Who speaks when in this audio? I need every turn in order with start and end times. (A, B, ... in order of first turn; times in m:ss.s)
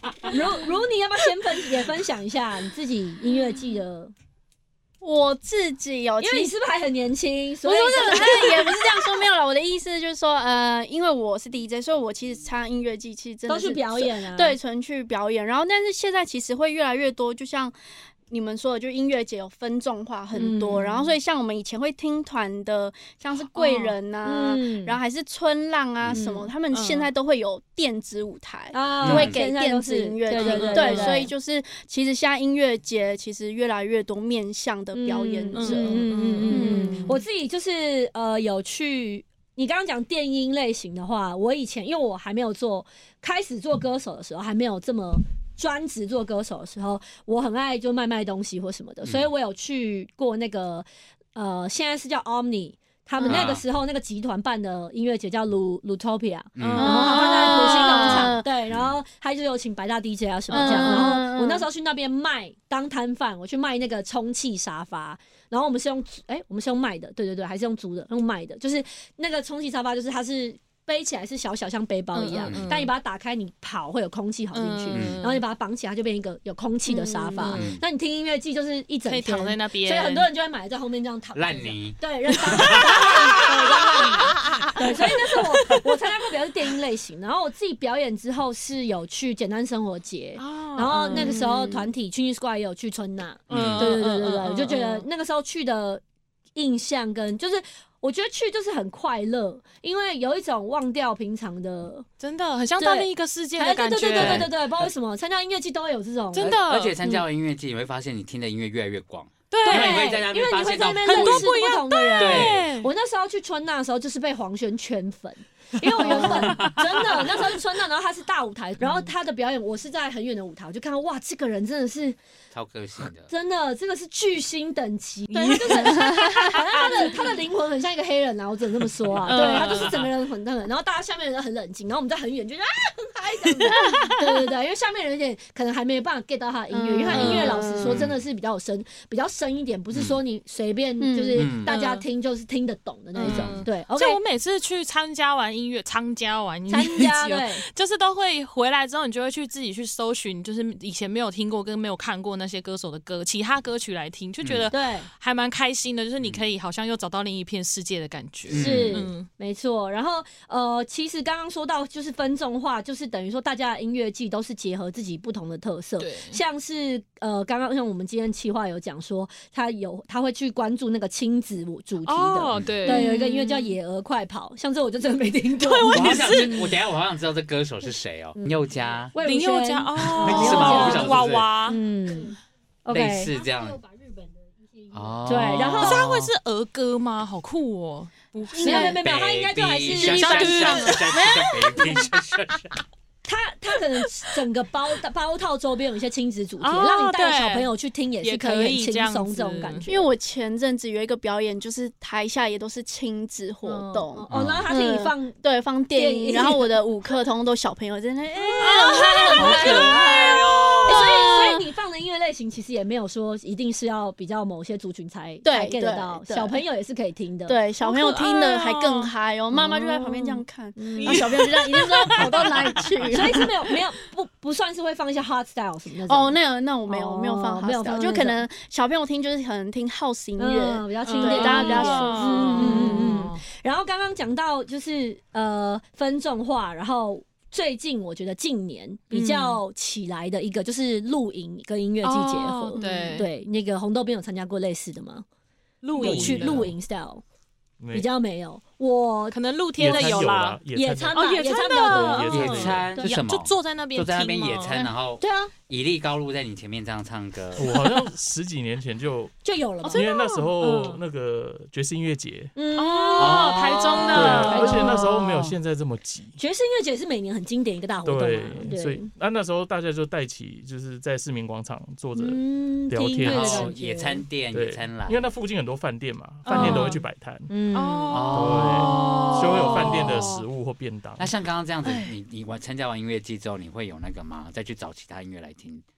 0:00.2-0:04.1 A
0:05.0-0:06.5 B
0:06.2-0:09.0 A
0:07.6-0:17.7 B
0:08.1-0:08.4 C
0:13.5-0:14.6 A
0:18.3-0:37.2 B
0:20.3-0:21.2 A
0:23.6-0:24.0 C
0:24.2-0:25.0 A
0:26.2-0:26.5 A
0:26.7-0:27.1 C
0:28.7-0:31.3 A
0:29.0-0:29.4 D
0:30.3-0:31.3 C
0:34.9-1:36.0 A
0:35.5-0:37.2 C
0:49.0-0:49.3 D
0:53.2-0:53.6 D
0:56.6-0:57.0 D
0:56.6-0:58.3 C
0:56.8-0:58.5 B
0:58.0-0:59.0 D
1:00.5-1:01.7 B
1:00.5-1:01.2 C
1:12.1-1:12.9 C
1:12.4-1:12.8 D
1:14.5-1:15.4 C
1:14.9-1:15.2 D
1:17.0-1:17.4 B
1:17.4-1:17.7 C
1:17.5-1:17.8 D
1:19.1-1:20.3 C
1:21.4-1:23.8 D
1:23.0-1:24.8 C
1:30.4-1:31.7 C
1:31.1-1:31.8 B
1:33.5-1:35.1 C
1:33.5-1:34.0 D
1:36.6-1:42.1 A
1:42.2-1:44.5 C
1:42.8-1:46.6 A
1:44.1-1:44.9 D
1:46.3-1:47.1 C
1:46.4-1:51.5 D
1:49.5-1:50.1 C
1:49.6-2:02.2 A
1:51.1-1:52.9 C
1:52.2-1:52.7 D
1:56.0-1:56.8 C
1:56.0-1:57.1 D
1:58.8-1:59.1 C
2:02.5-2:03.3 D
2:03.3-2:24.2 A
2:05.3-2:07.3 C
2:09.2-2:10.0 C
2:13.5-2:14.2 C
2:13.7-2:14.1 B
2:16.7-2:18.0 B
2:17.1-2:17.6 C
2:17.1-2:18.2 D
2:19.9-2:20.2 D
2:21.0-2:21.5 B
2:21.3-2:21.8 D
2:21.6-2:22.0 C
2:23.2-2:39.3 C
2:23.2-2:23.7 D
2:26.7-2:27.6 A
2:34.4-2:34.7 D
2:34.7-2:35.1 A
2:38.5-2:39.1 D
2:38.5-2:56.6 A
2:46.0-2:46.4 C
2:52.0-2:53.8 C
2:52.5-2:53.0 D
2:55.6-2:56.8 C
2:55.9-2:59.2 D
2:59.1-3:03.4 A
2:59.2-3:01.8 C
3:00.2-3:01.5 D
3:00.4-3:00.9 B
3:02.9-3:03.8 D
3:04.9-3:06.3 D
3:05.2-3:06.1 A
3:05.7-3:09.0 C
3:08.5-3:09.0 B
3:08.6-3:10.9 A
3:09.0-3:12.8 D
3:09.9-3:11.6 C
3:10.6-3:12.0 B
3:13.3-3:19.9 A
3:16.6-3:17.7 C
3:18.2-3:20.0 C
3:19.9-3:31.6 B
3:23.6-3:25.4 A
3:24.3-3:24.7 D
3:25.9-3:26.8 A
3:28.4-3:37.6 A
3:28.6-3:30.0 C
3:29.5-3:31.1 D
3:35.4-3:36.6 B
3:37.5-3:43.5 B
3:37.8-3:39.1 C
3:39.5-3:41.4 A
3:41.0-3:42.7 C
3:43.1-3:48.4 A
3:46.1-3:53.2 B
3:50.4-4:05.2 A
3:51.1-3:53.4 C
3:59.1-3:59.6 C
4:02.0-4:03.3 C
4:02.8-4:03.2 B
4:05.8-4:06.7 C
4:06.0-4:07.2 A
4:06.0-4:06.8 E
4:07.8-4:08.1 E
4:07.9-4:13.2 A
4:09.3-4:10.6 C
4:09.8-4:13.0 E
4:11.2-4:14.8 C
4:12.3-4:17.8 D
4:15.2-4:15.5 A
4:17.6-4:19.4 E
4:19.4-4:21.0 A
4:19.8-4:20.7 C
4:19.9-4:22.5 E
4:22.6-4:25.5 A
4:22.8-4:25.1 C
4:23.2-4:24.5 D
4:24.1-4:26.4 E
4:26.4-4:29.1 A
4:28.0-4:33.7 E
4:32.2-4:34.2 A
4:33.2-4:35.3 D
4:34.5-4:37.5 E
4:36.4-4:37.0 C
4:36.5-4:38.2 A
4:37.7-4:40.4 C
4:38.1-4:40.2 D
4:38.3-4:41.3 E
4:41.2-4:45.8 D
4:41.8-4:42.1 C